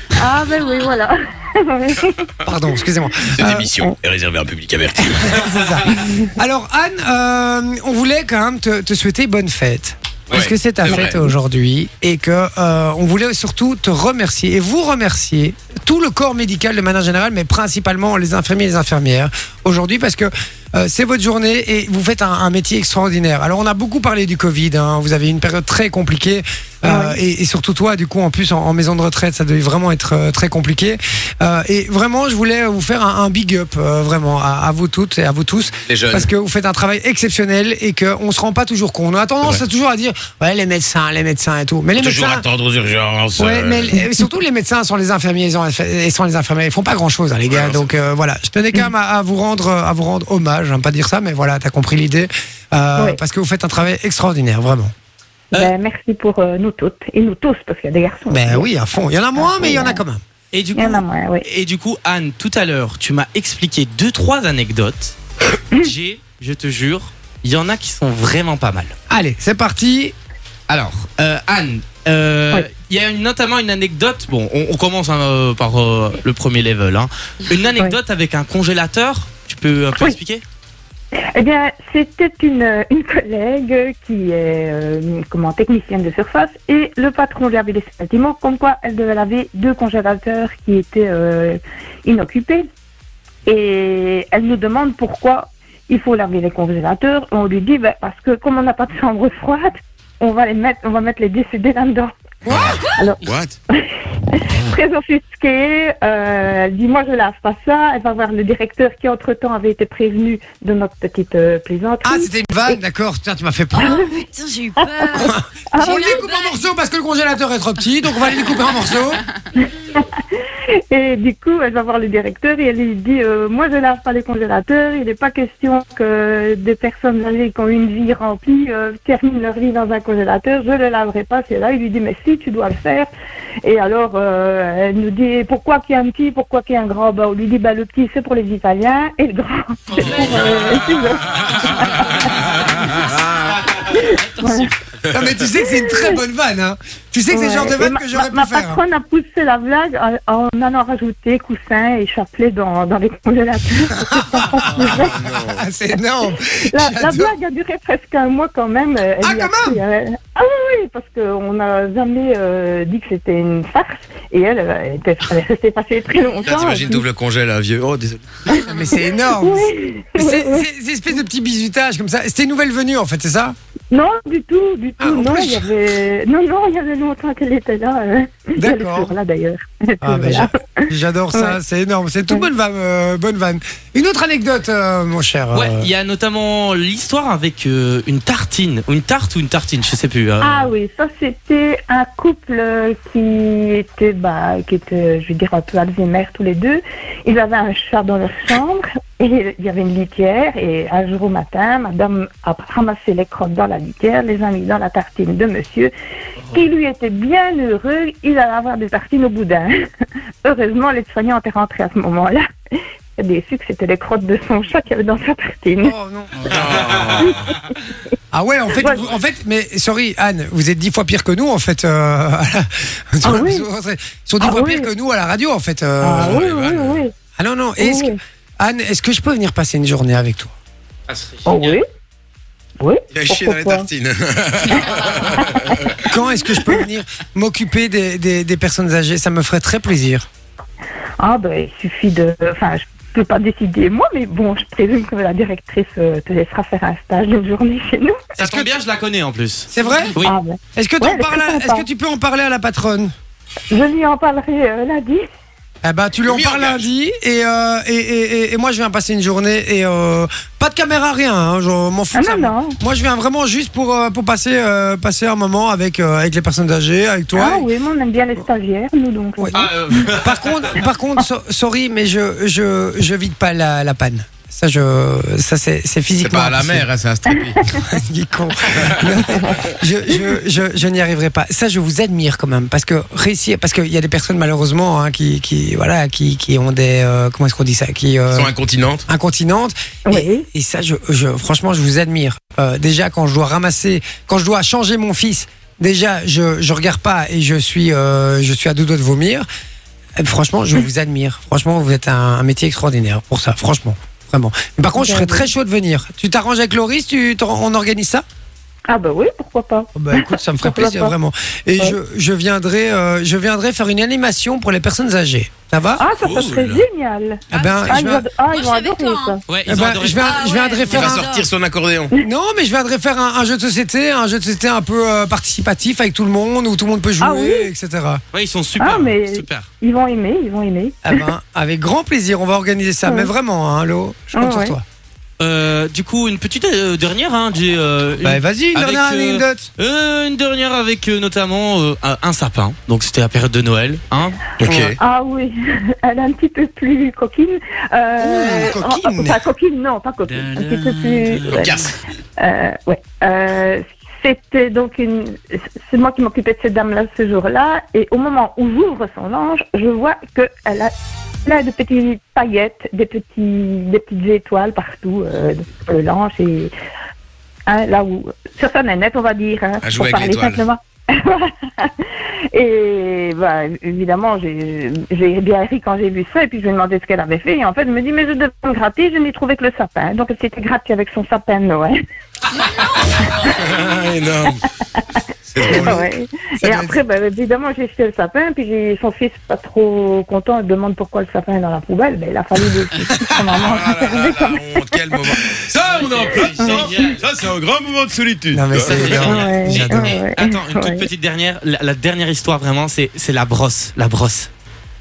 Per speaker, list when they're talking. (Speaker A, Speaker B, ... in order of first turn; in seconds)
Speaker A: 0.1-2.2, 6.0-6.3, 26.8-27.2, 55.5-58.7, 59.3-60.0, 60.8-61.4, 81.1-92.7, 93.5-102.1, 102.9-112.8, 113.7-114.2, 114.8-116.2, 119.6-133.1, 133.6-143.0, 143.8-144.7, 145.6-146.2, 147.3-155.2, 156.7-167.1, 168.5-170.7, 173.9-181.6, 190.4-205.9, 206.5-209.7, 210.4-212.4, 213.2-215.9, 217.2-217.5, 218.8-219.0, 223.2-223.7, 224.4-224.9, 226.0-227.1, 227.8-228.2, 231.4-231.8, 232.8-233.9, 234.7-235.7, 241.2-248.3, 250.2-251.9, 253.7-255.2, 262.1-262.8, 267.3-270.1, 279.2-280.2, 290.1-290.4, 305.0-305.5, 308.9-311.1, 316.0-319.4, 327.2-327.7, 328.8-331.3, 333.1-333.3, 334.3-334.8, 344.7-360.9, 361.4-366.7, 367.7-381.9, 385.6-395.4, 396.3-397.1, 399.3-401.1
Speaker B: 2.4-3.7, 5.0-42.4, 43.4-54.9, 58.3-60.2, 69.1-70.1, 102.4-102.8, 112.0-114.0, 115.1-119.2, 145.0-148.8, 154.1-157.3, 159.2-159.8, 168.5-173.5, 175.0-175.7, 178.6-179.1, 180.0-185.9, 215.8-216.8, 218.3-226.4, 227.3-230.5, 236.0-240.3, 248.4-248.7, 249.7-250.2, 250.8-253.1, 255.8-267.7, 269.4-276.9, 277.6-288.5, 289.1-299.4, 300.2-308.2, 309.9-316.0, 317.5-318.2, 319.6-321.3, 322.2-328.2, 331.0-334.8, 338.2-339.7, 348.2-349.4, 385.6-386.0, 386.6-387.0, 398.5-400.1
Speaker C: 3.3-5.6, 10.3-11.2, 35.9-36.3, 42.0-44.0, 47.5-47.9, 102.5-103.5, 154.7-155.6, 166.4-168.2, 216.4-217.5, 226.2-227.0, 233.1-236.0, 256.2-256.9, 276.2-277.6, 278.7-279.2, 288.3-289.1, 320.9-322.1, 344.6-345.0, 351.6-351.9, 369.8-370.6, 383.4-384.6, 385.5-386.0, 393.5-399.6
Speaker D: 60.5-65.2, 65.8-68.9, 70.7-80.4, 140.0-140.8, 185.5-190.7, 231.1-231.8, 248.3-250.3, 269.5-270.8, 316.1-316.8, 319.5-320.4, 328.3-329.7, 335.4-344.5, 350.3-351.7, 395.7-397.2, 398.7-404.5
Speaker E: 114.0-116.7, 317.5-319.4, 320.1-321.5, 350.8-351.6, 382.6-383.1